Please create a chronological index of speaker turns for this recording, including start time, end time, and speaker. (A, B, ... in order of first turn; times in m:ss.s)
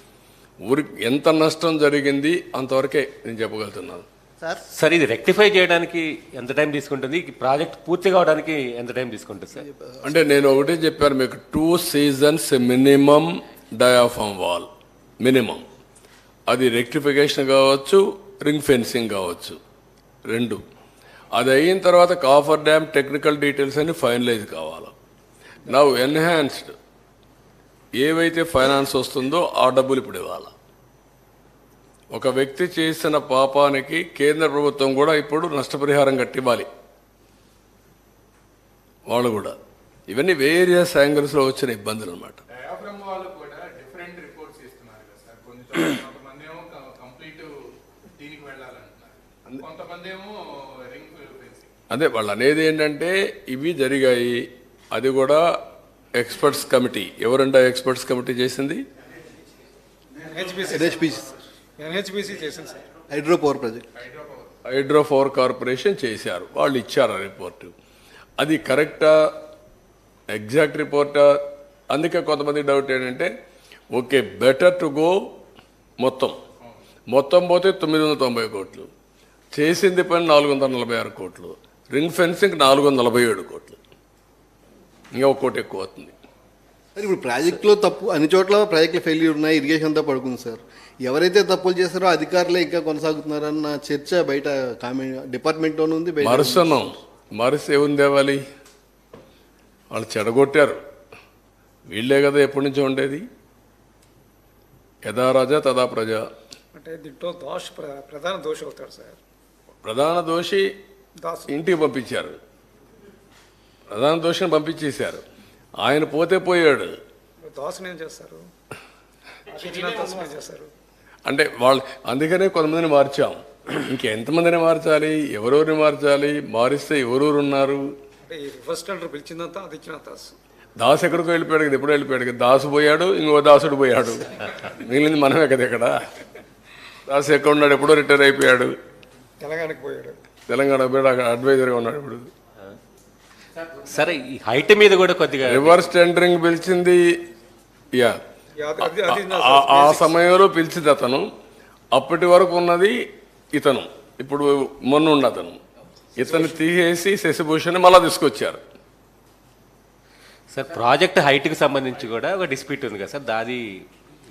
0:00.6-0:04.1 A
0:04.7-0:09.6 B
0:09.6-0:10.4 C
0:10.0-0:14.7 A
0:15.2-0:15.6 A
0:16.5-0:19.6 A
0:20.3-0:20.6 A
0:21.3-0:24.9 A
0:25.7-0:26.8 A
0:28.0-0:30.5 A
0:32.1-0:36.7 A
0:39.1-0:39.6 A
0:40.1-0:42.4 A
0:42.5-0:51.7 D
0:51.9-0:55.4 A
0:56.2-0:58.8 A
1:00.2-1:01.1 E
1:00.7-1:01.3 C
1:01.8-1:02.8 E
1:03.1-1:03.9 C
1:04.1-1:04.5 D
1:04.7-1:07.7 A
1:08.4-1:09.3 A
1:10.3-1:11.4 A
1:11.9-1:13.3 A
1:13.9-1:15.2 A
1:16.0-1:16.4 A
1:17.1-1:18.9 A
1:19.5-1:23.8 A
1:25.1-1:26.1 A
1:27.0-1:36.9 C
1:36.2-1:38.4 A
1:39.9-1:40.8 A
1:41.9-1:43.2 A
1:45.0-1:46.2 A
1:46.7-1:49.2 E
1:49.8-1:50.7 A
1:51.2-1:51.5 E
1:51.5-1:52.4 A
1:53.9-1:55.2 A
1:55.8-1:57.0 A
1:57.4-1:58.4 E
1:59.5-2:00.7 E
2:01.3-2:07.9 A
2:08.2-2:10.4 E
2:10.8-2:16.0 A
2:17.1-2:18.8 A
2:19.4-2:20.2 E
2:20.5-2:22.3 A
2:23.8-2:25.8 B
2:25.5-2:27.0 A
2:28.6-2:30.2 E
2:28.8-2:31.3 A
2:31.9-2:33.0 A
2:33.5-2:35.6 A
2:36.2-2:38.6 A
2:36.2-2:36.6 E
2:40.5-2:43.8 B